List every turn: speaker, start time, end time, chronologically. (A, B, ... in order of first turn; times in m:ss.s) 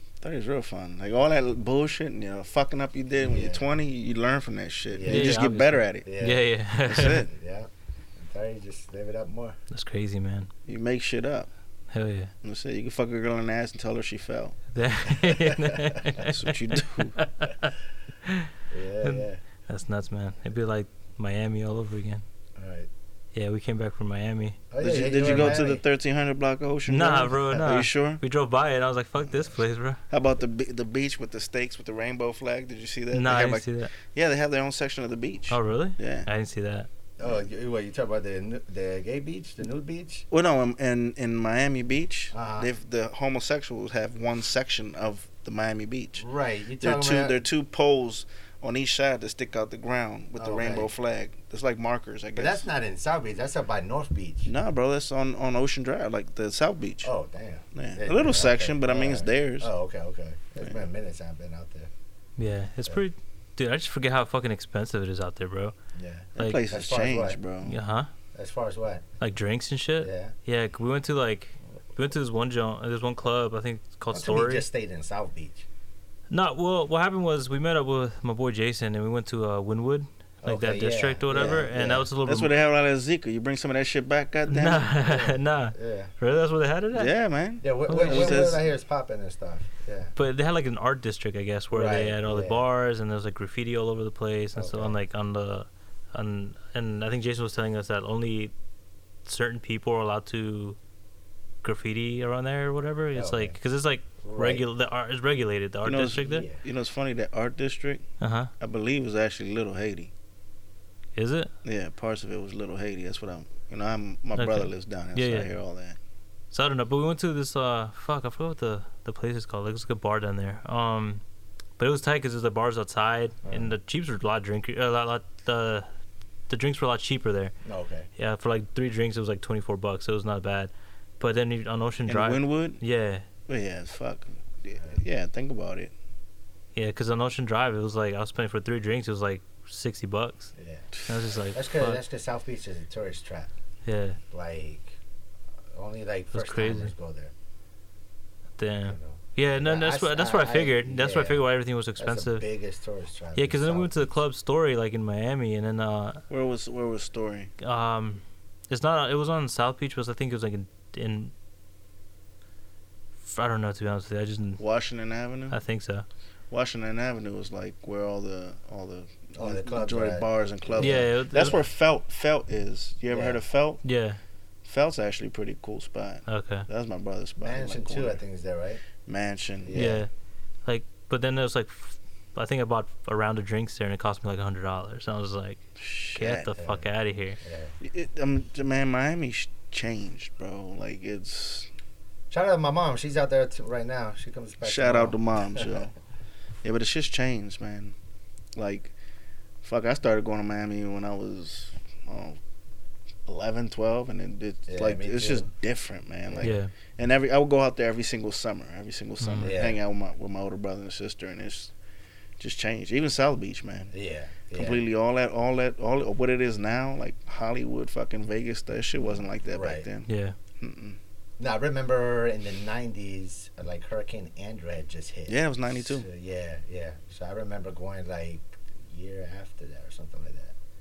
0:00.2-0:06.1 A
0:03.2-0:03.7 B
0:04.9-0:05.5 B
0:05.0-0:07.2 C
0:06.0-0:06.5 B
0:06.8-0:07.3 A
0:07.0-0:09.6 B
0:09.7-0:10.5 C
0:10.6-0:11.5 A
0:11.9-0:12.3 C
0:12.4-0:14.6 A
0:14.7-0:17.7 C
0:15.3-0:15.7 B
0:16.2-0:17.2 A
0:18.7-0:19.4 B
0:19.0-0:22.2 C
0:22.6-0:22.9 B
0:23.3-0:24.6 C
0:24.7-0:25.8 B
0:24.8-0:28.2 A
0:25.3-0:25.6 C
0:26.9-0:30.0 C
0:30.1-0:36.3 A
0:33.1-0:33.9 C
0:35.5-0:36.9 C
0:37.2-0:40.2 B
0:40.3-0:46.2 A
0:42.3-0:42.7 B
0:46.2-0:47.4 B
0:46.8-0:52.6 A
0:50.4-0:50.9 B
0:52.4-0:54.5 B
0:54.4-0:57.1 A
0:57.0-1:01.9 B
0:57.7-0:59.7 A
1:02.4-1:05.7 C
1:05.9-1:07.4 B
1:06.4-1:07.8 A
1:06.4-1:06.6 C
1:07.6-1:08.1 C
1:08.3-1:09.0 B
1:09.2-1:14.6 C
1:10.0-1:10.3 B
1:14.1-1:15.6 B
1:16.3-1:22.5 C
1:20.4-1:22.1 B
1:22.2-1:24.9 A
1:24.5-1:27.1 C
1:25.0-1:26.1 B
1:26.9-1:28.6 A
1:27.6-1:30.1 B
1:27.8-1:28.6 C
1:30.2-1:38.5 C
1:31.7-1:32.6 B
1:34.6-1:35.0 B
1:39.2-1:40.8 C
1:41.6-1:46.5 C
1:43.1-1:43.6 B
1:44.2-1:44.6 B
1:45.8-1:48.0 A
1:46.2-1:46.6 B
1:48.2-1:48.5 C
1:48.6-1:50.1 A
1:51.1-1:51.5 C
1:51.6-1:56.0 A
1:54.4-1:55.5 C
1:56.5-2:01.2 C
2:01.8-2:05.9 C
2:03.5-2:03.7 B
2:06.5-2:07.5 C
2:07.6-2:08.1 B
2:08.2-2:13.2 C
2:12.0-2:12.8 A
2:13.5-2:15.9 A
2:16.7-2:20.5 C
2:20.6-2:20.9 B
2:21.0-2:22.0 C
2:21.5-2:23.5 B
2:23.8-2:24.2 C
2:24.3-2:25.0 B
2:25.7-2:27.3 B
2:26.3-2:26.9 C
2:28.6-2:32.4 C
2:28.9-2:31.4 B
2:32.0-2:34.1 B
2:33.4-2:36.2 C
2:36.3-2:37.5 A
2:37.6-2:41.3 C
2:43.2-2:44.6 C
2:44.6-2:45.6 A
2:45.5-2:46.0 C
2:46.5-2:53.8 A
2:49.4-2:51.6 B
2:50.8-2:51.6 C
2:53.1-2:53.4 B
2:53.8-2:54.2 C
2:54.6-2:58.2 A
2:56.3-2:56.7 C
2:57.4-2:58.8 B
2:59.0-2:59.7 A
2:59.6-3:00.0 B
2:59.7-3:00.1 C
3:00.6-3:05.6 C
3:05.8-3:06.5 A
3:06.1-3:07.4 C
3:06.6-3:06.8 B
3:07.4-3:07.7 B
3:07.8-3:11.7 A
3:12.3-3:15.7 B
3:14.6-3:15.9 A
3:16.6-3:17.9 A
3:18.6-3:18.9 A
3:19.6-3:22.4 A
3:23.2-3:31.7 A
3:24.7-3:25.5 B
3:26.2-3:26.5 B
3:26.4-3:26.7 C
3:29.2-3:29.5 C
3:29.4-3:29.8 B
3:32.4-3:33.9 A
3:33.9-3:34.8 B
3:34.5-3:41.0 A
3:39.5-3:39.9 B
3:40.1-3:40.4 C
3:41.4-3:50.5 B
3:45.3-3:46.0 A